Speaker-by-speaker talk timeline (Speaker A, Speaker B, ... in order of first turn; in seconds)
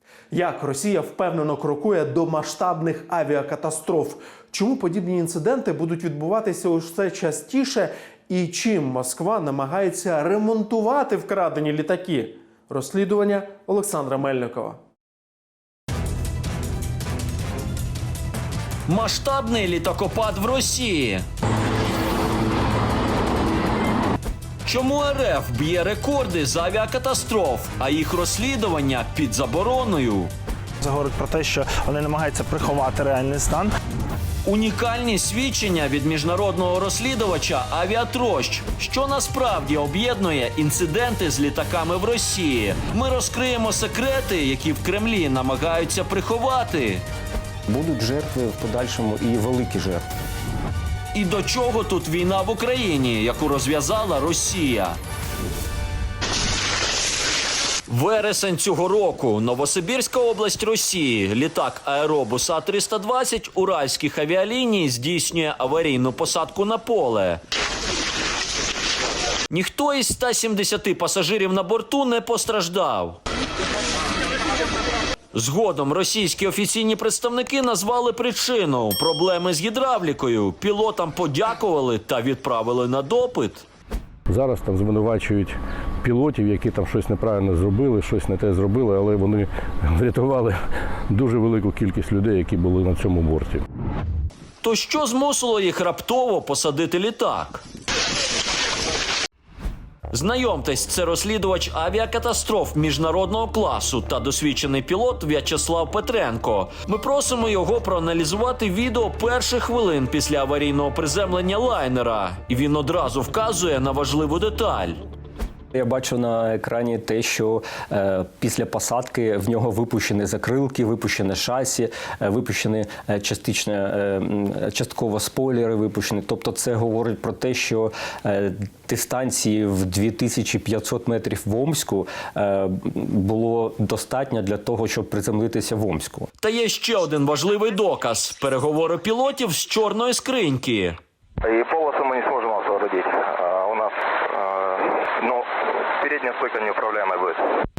Speaker A: 0.3-14.8
Speaker B: 18.9-21.2, 24.6-30.3, 34.4-47.0, 51.1-55.0, 57.9-67.4, 69.5-73.2, 75.3-83.6, 94.6-97.6, 100.1-115.0, 136.4-141.0
Speaker C: 30.8-33.7
Speaker D: 47.7-50.0, 115.7-136.3
Speaker E: 84.3-90.5, 91.1-93.6
Speaker F: 141.4-147.5